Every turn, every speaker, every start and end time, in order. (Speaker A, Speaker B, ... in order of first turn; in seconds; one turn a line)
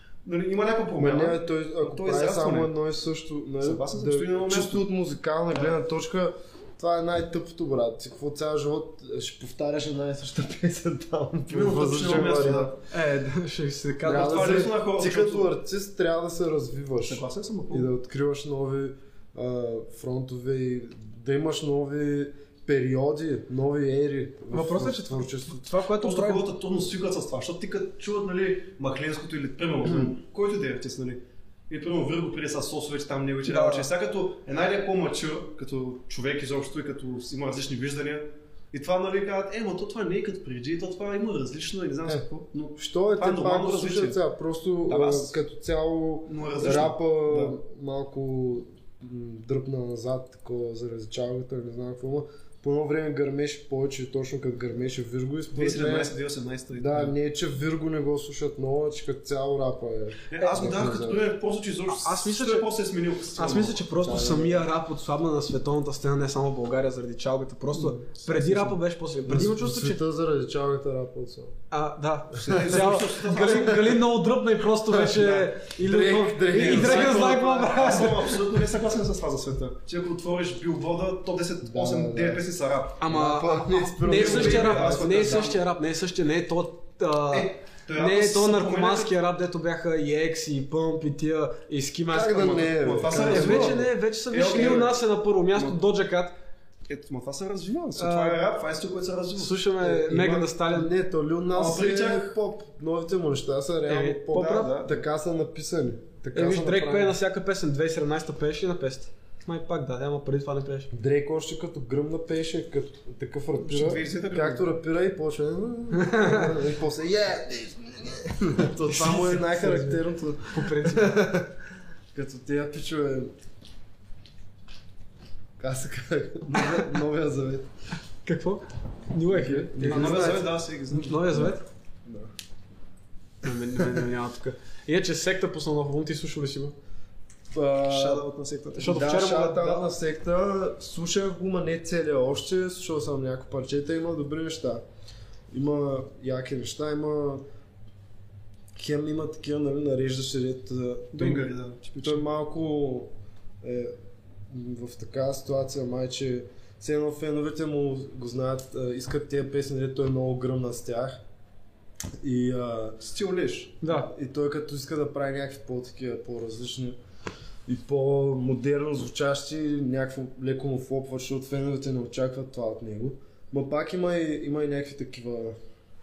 Speaker A: 0.2-2.7
Speaker B: 1.0-12.8
Speaker A: 3.6-4.8
Speaker A: 11.5-12.8
Speaker C: 12.9-14.6
Speaker B: 14.0-25.7
Speaker A: 14.1-15.5
Speaker A: 17.0-17.9
Speaker C: 24.5-26.4
Speaker A: 26.0-44.2
Speaker C: 33.5-33.9
Speaker B: 42.8-56.1
Speaker A: 44.9-45.4
Speaker A: 46.3-47.6
Speaker A: 55.5-57.1
Speaker B: 56.7-61.3
Speaker A: 60.3-63.9
Speaker C: 60.4-60.7
Speaker C: 61.9-62.7
Speaker C: 63.4-70.0
Speaker B: 64.0-64.7
Speaker A: 67.8-68.8
Speaker B: 69.3-71.6
Speaker C: 71.7-78.3
Speaker A: 72.4-74.1
Speaker B: 74.9-78.1
Speaker A: 75.1-75.5
Speaker A: 76.5-83.0
Speaker B: 81.6-82.5
Speaker C: 83.0-96.4
Speaker B: 83.1-85.5
Speaker A: 84.0-85.6
Speaker A: 87.3-89.1
Speaker B: 92.1-93.9
Speaker A: 92.7-95.0
Speaker B: 94.5-94.9
Speaker A: 95.5-95.8
Speaker A: 96.9-99.5
Speaker C: 98.0-98.4
Speaker C: 99.4-100.9
Speaker B: 99.8-107.2
Speaker A: 101.5-102.4
Speaker C: 103.9-104.7
Speaker A: 104.3-105.0
Speaker C: 106.3-110.9
Speaker B: 110.9-121.6
Speaker A: 113.6-114.7
Speaker C: 116.0-116.5
Speaker C: 118.9-121.2
Speaker B: 122.1-123.3
Speaker B: 125.6-127.7
Speaker C: 128.2-131.6
Speaker B: 129.3-130.5
Speaker A: 129.8-131.5
Speaker B: 132.1-132.3
Speaker C: 133.4-136.8
Speaker B: 137.5-138.3
Speaker A: 137.9-139.0
Speaker C: 138.8-139.9
Speaker B: 138.8-144.8
Speaker B: 145.5-147.4
Speaker B: 148.8-151.5
Speaker A: 151.1-152.2
Speaker B: 152.0-153.1
Speaker B: 153.6-153.9
Speaker B: 154.5-161.2
Speaker B: 162.2-163.0
Speaker A: 163.0-163.8
Speaker C: 163.8-164.1
Speaker B: 163.9-167.0
Speaker B: 167.7-175.6